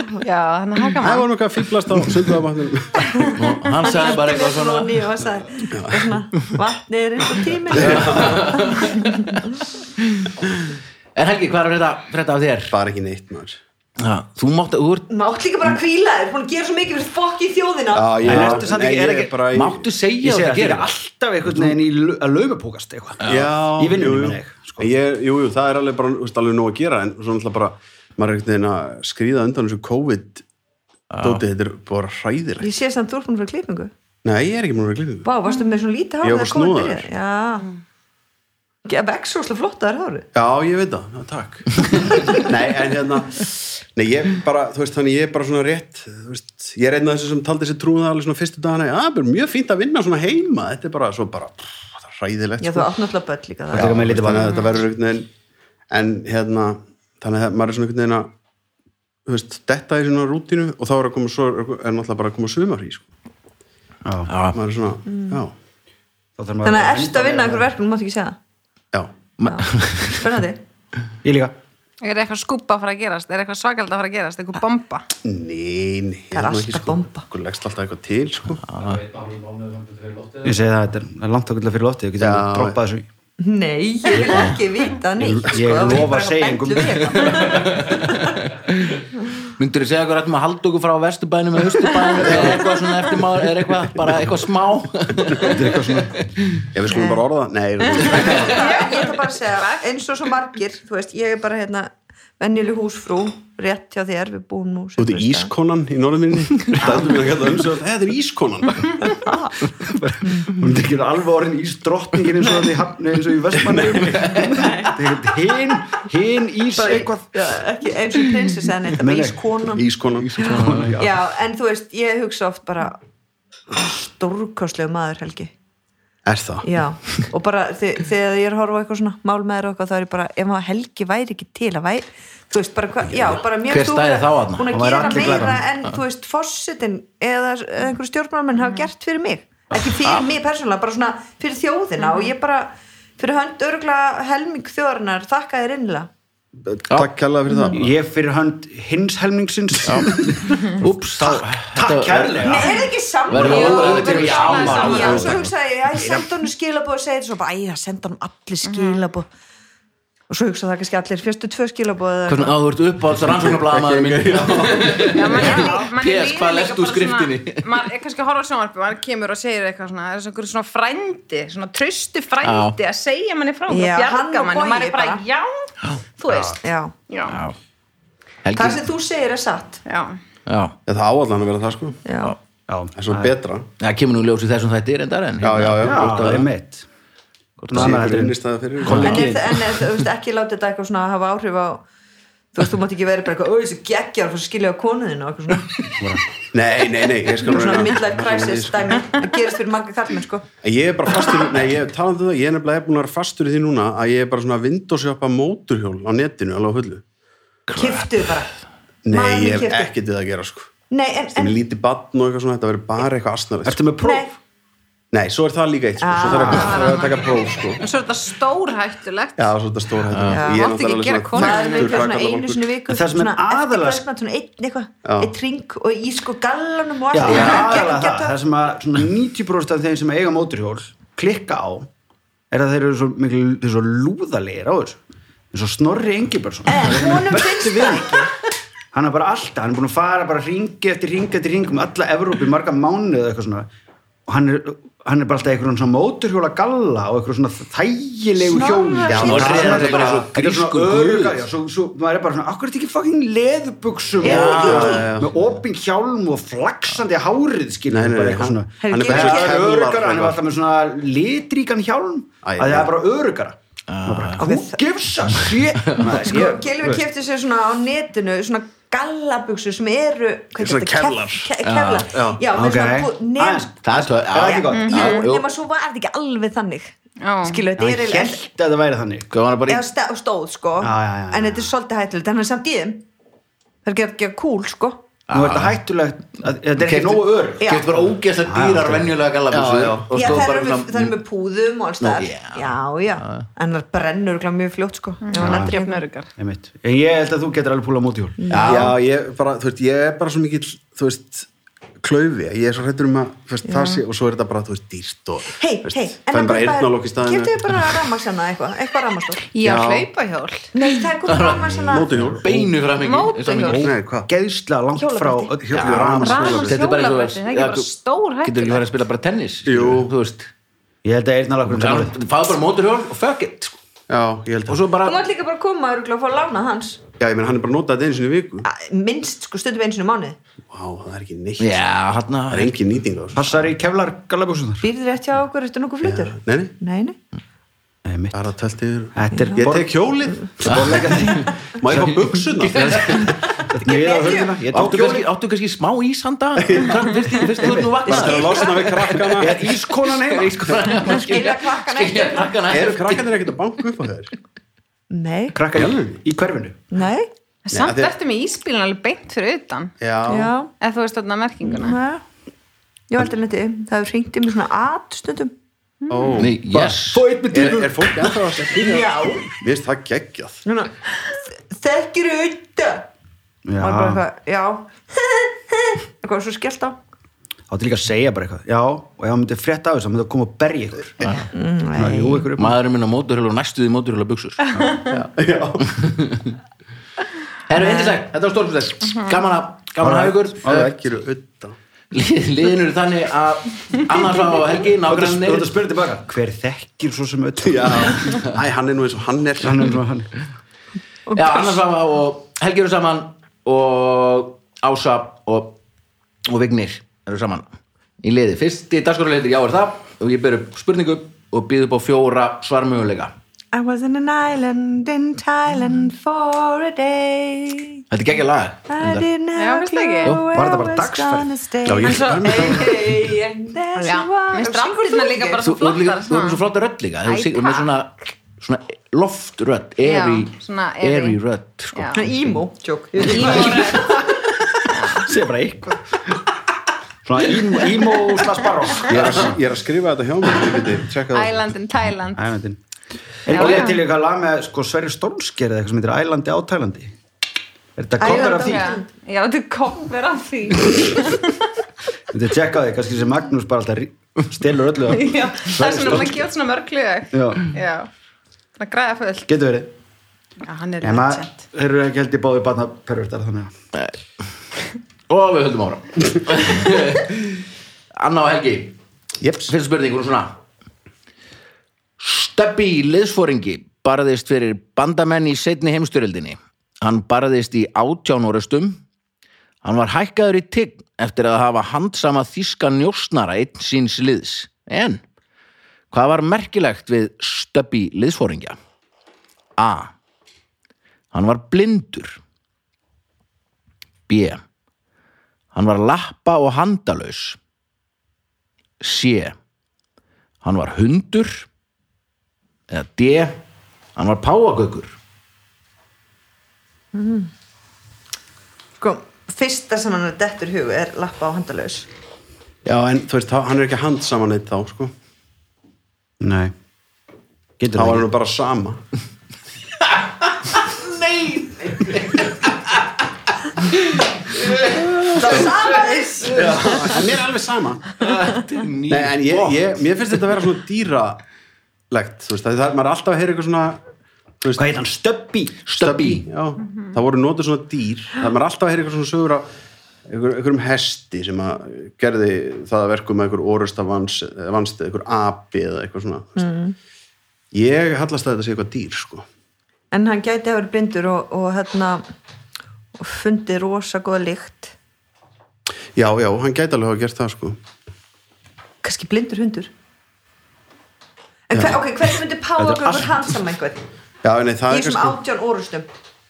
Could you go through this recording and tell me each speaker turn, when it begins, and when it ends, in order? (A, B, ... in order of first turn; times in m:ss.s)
0:00.2-0:01.3 A
0:01.0-0:03.3 B
0:03.1-0:09.2 C
0:03.4-0:05.1 D
0:05.7-0:06.1 B
0:07.7-0:08.7 B
0:07.8-0:09.4 D
0:11.2-0:12.8 D
0:12.7-0:13.6 B
0:14.0-0:15.1 D
0:15.1-0:18.6 C
0:17.9-0:19.8 B
0:18.2-0:19.4 E
0:19.5-0:20.9 D
0:20.2-0:24.9 E
0:23.2-0:23.5 D
0:23.2-0:30.4 B
0:31.1-0:31.4 D
0:31.2-0:32.7 B
0:32.6-0:33.9 C
0:34.2-0:35.3 B
0:35.2-0:37.7 C
0:36.2-0:37.1 B
0:38.9-0:40.3 C
0:40.3-0:52.9 B
0:52.6-0:54.4 C
0:53.7-0:55.3 B
0:53.7-0:54.5 E
0:55.9-0:58.3 B
0:59.3-1:03.1 B
1:04.0-1:04.3 E
1:04.3-1:04.6 D
1:04.5-1:05.5 B
1:05.1-1:05.4 C
1:06.4-1:07.7 E
1:06.6-1:08.4 C
1:09.4-1:10.2 D
1:09.4-1:10.6 C
1:11.2-1:11.6 E
1:12.0-1:15.1 A
1:15.2-1:18.7 B
1:16.3-1:17.2 C
1:18.6-1:19.8 D
1:20.4-1:23.1 E
1:22.2-1:22.8 B
1:23.4-1:28.2 C
1:24.1-1:24.6 E
1:25.2-1:27.4 E
1:27.3-1:35.9 D
1:32.3-1:32.6 B
1:35.4-1:36.3 E
1:36.7-1:38.8 B
1:36.9-1:37.3 C
1:38.0-1:45.5 C
1:38.1-1:39.9 A
1:45.0-1:49.2 B
1:49.2-1:49.6 C
1:49.8-1:57.6 E
1:50.2-1:50.5 C
1:53.6-1:54.2 B
1:54.1-1:54.5 D
1:54.5-1:55.0 C
1:56.8-1:59.9 C
1:59.0-1:59.4 E
1:59.8-2:00.6 B
2:00.2-2:00.9 D
2:00.4-2:01.2 E
2:00.4-2:03.0 C
2:03.7-2:05.5 C
2:06.2-2:06.7 B
2:06.6-2:26.1 C
2:13.1-2:13.4 B
2:13.7-2:15.1 D
2:14.7-2:15.6 E
2:26.7-2:27.9 B
2:27.5-2:27.8 C
2:27.7-2:35.4 E
2:29.9-2:32.7 D
2:32.4-2:39.3 C
2:33.3-2:35.5 D
2:33.4-2:35.3 A
2:35.9-2:36.3 E
2:38.6-2:39.1 A
2:40.3-2:42.6 C
2:42.3-2:47.8 D
2:43.2-2:45.3 B
2:45.0-2:57.4 A
2:45.3-2:45.9 C
2:52.4-2:52.8 D
2:53.7-2:55.2 C
2:56.3-2:56.6 E
2:56.6-2:56.9 C
2:57.3-2:57.6 D
2:58.4-2:58.8 D
2:58.5-2:59.8 C
2:59.9-3:00.2 A
3:00.5-3:00.8 D
3:00.9-3:02.0 B
3:02.1-3:02.4 C
3:02.7-3:03.4 E
3:03.0-3:03.7 B
3:03.8-3:06.5 D
3:05.4-3:06.2 B
3:05.8-3:06.9 E
3:07.7-3:09.6 E
3:07.8-3:09.4 B
3:09.0-3:11.8 C
3:12.5-3:16.0 C
3:16.0-3:16.2 E
3:16.5-3:19.0 B
3:17.2-3:20.5 C
3:20.6-3:27.0 B
3:27.7-3:28.2 D
3:27.7-3:28.5 C
3:29.0-3:30.7 B
3:29.1-3:29.9 C
3:30.9-3:31.6 C
3:31.4-3:33.8 B
3:33.6-3:34.3 E
3:34.0-3:34.3 C
3:35.1-3:37.8 B
3:36.0-3:37.0 C
3:36.2-3:36.7 E
3:36.5-3:39.5 A
3:39.4-3:42.7 B
3:40.1-3:40.5 D
3:40.3-3:40.8 C
3:40.4-3:42.0 A
3:41.3-3:48.4 C
3:42.9-3:44.0 E
3:45.0-3:45.3 B
3:47.1-3:51.9 E
3:47.2-3:47.9 D
3:52.5-3:55.0 E
3:55.5-3:58.3 E
3:56.7-3:58.3 C
3:58.9-4:03.7 E
4:04.3-4:27.0 E
4:08.4-4:09.7 C
4:09.1-4:10.2 B
4:09.1-4:11.5 D
4:14.2-4:15.0 C
4:14.2-4:15.0 D
4:14.3-4:15.4 B
4:17.9-4:20.4 B
4:18.8-4:19.7 C
4:22.4-4:22.9 B
4:23.9-4:24.4 D
4:24.4-4:24.8 C
4:25.3-4:26.3 D
4:26.1-4:33.7 C
4:30.6-4:31.5 B
4:31.6-4:32.1 D
4:32.1-4:32.4 B
4:32.5-4:35.1 E
4:33.8-4:35.5 D
4:34.4-4:38.4 C
4:34.7-4:35.3 A
4:37.2-4:37.6 A
4:37.8-4:39.3 E
4:39.3-4:39.9 D
4:39.7-4:43.0 C
4:40.8-4:41.7 E
4:43.8-4:45.0 C
4:45.3-4:45.8 D
4:45.3-4:47.9 E
4:46.8-4:51.2 D
4:47.6-4:47.9 C
4:48.4-4:49.2 E
4:49.5-4:50.4 B
4:50.1-4:56.0 C
4:52.0-4:53.5 D
4:55.2-4:56.3 A
4:55.4-4:55.8 E
4:56.4-4:58.8 E
4:58.4-4:59.0 C
4:58.5-5:01.5 B
4:58.5-4:58.8 D
5:02.0-5:08.0 B
5:03.7-5:04.0 C
5:05.6-5:09.5 C
5:09.5-5:10.7 A
5:09.6-5:10.1 B
5:10.7-5:12.3 C
5:11.2-5:13.9 D
5:11.9-5:12.5 B
5:12.1-5:12.7 E
5:13.0-5:13.8 A
5:13.7-5:16.8 E
5:13.7-5:14.3 B
5:15.0-5:15.6 C
5:15.7-5:16.7 B
5:15.8-5:17.9 D
5:16.2-5:18.8 A
5:18.4-5:20.5 D
5:19.7-5:20.1 B
5:21.0-5:22.2 E
5:21.7-5:23.8 D
5:24.1-5:24.8 B
5:24.7-5:25.2 D
5:25.0-5:27.0 C
5:27.2-5:28.7 B
5:28.7-5:30.4 C
5:30.7-5:31.8 B
5:31.6-5:32.8 D
5:32.5-5:33.5 B
5:33.4-5:34.9 E
5:34.8-5:37.2 C
5:36.0-5:36.7 B
5:38.0-5:38.4 E
5:38.3-5:43.3 B
5:39.1-5:39.9 E
5:40.6-5:45.3 E
5:40.7-5:41.5 D
5:42.6-5:43.7 D
5:43.8-5:44.6 C
5:44.7-5:53.5 D
5:46.6-5:47.0 B
5:47.5-5:48.4 E
5:48.1-5:49.6 B
5:48.1-5:48.7 C
5:49.3-5:51.3 E
5:51.1-5:52.6 C
5:52.7-5:54.3 B
5:55.1-5:55.7 C
5:55.5-5:56.8 E
5:55.8-5:56.2 B
5:56.9-5:57.3 C
5:57.6-5:59.9 A
5:57.7-5:58.1 B
6:00.0-6:00.5 B
6:00.3-6:00.7 C
6:00.8-6:02.0 A
6:01.6-6:02.2 C
6:03.1-6:05.5 C
6:06.1-6:06.6 B
6:06.4-6:07.3 D
6:06.7-6:08.8 E
6:07.5-6:10.6 B
6:08.7-6:09.5 C
6:10.7-6:13.1 C
6:13.7-6:14.2 E
6:13.8-6:17.0 C
6:17.7-6:22.8 E
6:21.2-6:21.5 D
6:21.5-6:22.5 C
6:22.6-6:24.7 D
6:25.1-6:25.9 B
6:25.8-6:26.6 D
6:27.7-6:31.0 D
6:27.8-6:28.2 C
6:30.0-6:30.9 E
6:30.7-6:31.8 B
6:32.1-6:35.7 D
6:34.9-6:38.4 E
6:37.6-6:40.0 B
6:39.6-6:40.3 E
6:41.3-6:45.8 D
6:41.4-6:41.7 C
6:46.5-6:47.7 D
6:48.2-6:53.3 D
6:53.7-6:58.0 C
6:58.1-6:59.3 D
6:58.9-7:05.7 C
6:59.6-7:00.4 A
7:00.2-7:00.5 D
7:00.5-7:01.5 E
7:01.9-7:03.0 B
7:02.0-7:03.0 A
7:04.0-7:06.6 A
7:05.6-7:12.3 D
7:07.2-7:07.9 A
7:10.0-7:11.4 A
7:11.9-7:12.2 A
7:12.1-7:14.5 C
7:13.2-7:14.3 A
7:14.9-7:15.3 A
7:15.1-7:16.3 E
7:17.2-7:19.6 E
7:19.1-7:21.6 B
7:21.3-7:22.5 A
7:22.4-7:22.8 E
7:23.4-7:27.2 E
7:23.5-7:24.0 A
7:28.0-7:28.9 E
7:28.2-7:29.1 C
7:28.2-7:31.7 A
7:32.3-7:36.5 E
7:35.1-7:38.1 A
7:37.3-7:37.7 E
7:38.8-7:39.5 A
7:39.5-7:39.9 E
7:40.6-7:41.6 A
7:41.0-7:43.7 E
7:45.3-7:47.6 D
7:48.2-7:49.0 D
7:49.7-7:50.6 D
7:52.2-7:59.0 D
7:59.8-8:05.2 D
8:06.1-8:08.8 D
8:09.8-8:10.1 D
8:11.3-8:12.4 D
8:14.3-8:14.6 D
8:15.7-8:17.6 D
8:19.0-8:19.6 D
8:20.6-8:21.7 D
8:22.9-8:23.6 D
8:24.2-8:25.2 D
8:27.1-8:27.5 C
8:29.0-8:32.1 C
8:32.8-8:35.1 B
8:36.4-8:36.7 E
8:37.8-8:38.3 E
8:38.0-8:39.0 B
8:40.0-8:43.1 D
8:43.8-8:47.1 D
8:45.2-8:48.0 B
8:45.4-8:46.8 C
8:48.2-8:50.1 D
8:49.1-8:51.4 B
8:52.1-8:54.0 B
8:54.6-8:55.0 B
8:54.8-8:55.8 E
8:55.9-8:56.5 D
8:56.0-8:59.7 B
9:00.3-9:06.6 B
9:06.6-9:07.0 C
9:07.7-9:09.5 B
9:10.1-9:12.2 C
9:13.2-9:15.0 C
9:16.2-9:17.8 B
9:19.0-9:19.9 C
9:21.7-9:24.0 C
9:21.7-9:22.0 B
9:22.8-9:23.2 B
9:24.4-9:25.4 B
9:24.9-9:26.1 C